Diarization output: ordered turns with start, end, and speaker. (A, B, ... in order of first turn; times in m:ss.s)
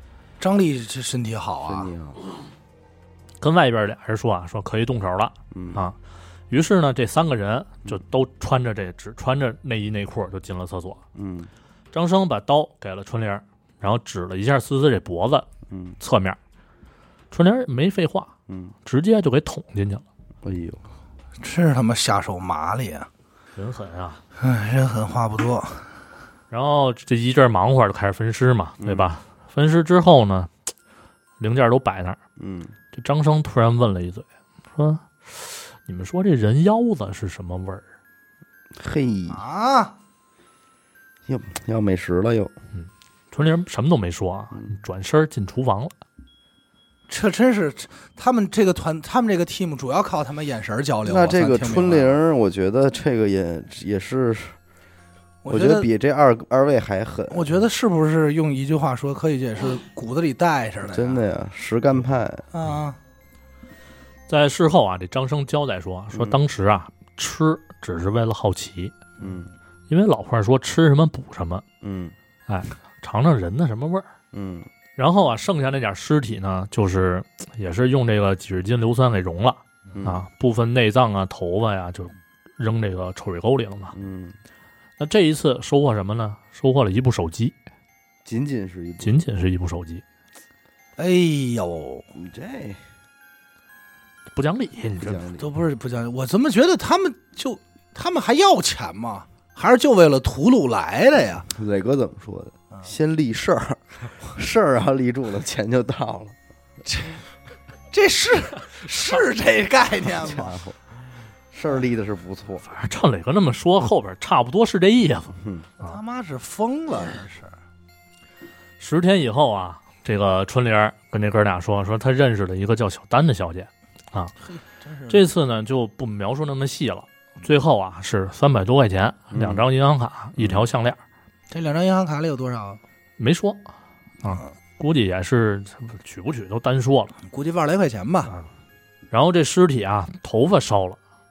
0:00.4-0:01.9 A
0:01.6-0:02.2 B
0:03.4-0:06.0 C
0:05.5-0:05.8 B
0:06.5-0:11.0 C
0:11.1-0:11.5 B
0:11.9-0:15.5 C
0:15.7-0:16.0 B
0:16.0-0:16.4 C
0:17.3-0:18.3 C
0:18.5-0:18.7 B
0:18.8-0:20.0 C
0:20.4-0:20.8 B
0:21.4-0:23.1 A
0:23.6-0:24.2 C
0:24.4-0:25.9 A
0:26.5-0:30.5 C
0:28.8-0:29.1 B
0:31.4-0:32.2 C
0:32.4-0:32.7 B
0:32.9-0:37.8 C
0:38.8-0:39.4 B
0:39.3-0:39.9 A
0:41.3-0:42.5 B
0:42.7-0:45.9 C
0:47.1-0:52.2 A
0:51.0-0:54.5 B
0:55.4-0:55.9 A
0:55.5-0:57.5 B
0:57.3-1:01.2 A
1:00.9-1:02.5 B
1:02.5-1:03.0 A
1:04.3-1:09.0 C
1:09.2-1:09.5 B
1:09.9-1:11.6 C
1:11.8-1:12.1 B
1:12.5-1:14.1 C
1:14.3-1:14.7 B
1:15.0-1:23.9 C
1:19.9-1:20.2 B
1:23.9-1:24.4 B
1:25.0-1:27.5 C
1:28.2-1:29.2 B
1:29.0-1:30.0 C
1:31.0-1:32.1 A
1:32.1-1:32.8 B
1:34.3-1:35.2 C
1:35.0-1:35.5 B
1:35.4-1:41.5 A
1:41.5-1:46.3 B
1:46.8-1:47.2 A
1:47.9-1:50.6 A
1:50.2-1:50.8 B
1:51.5-1:52.6 B
1:52.7-1:56.0 C
1:55.4-1:55.7 B
1:55.8-1:57.5 A
1:58.8-2:04.3 C
2:04.7-2:05.2 A
2:05.1-2:11.0 C
2:09.3-2:09.6 B
2:11.5-2:12.8 A
2:13.2-2:13.6 C
2:14.2-2:17.1 C
2:17.2-2:18.4 A
2:19.1-2:21.0 C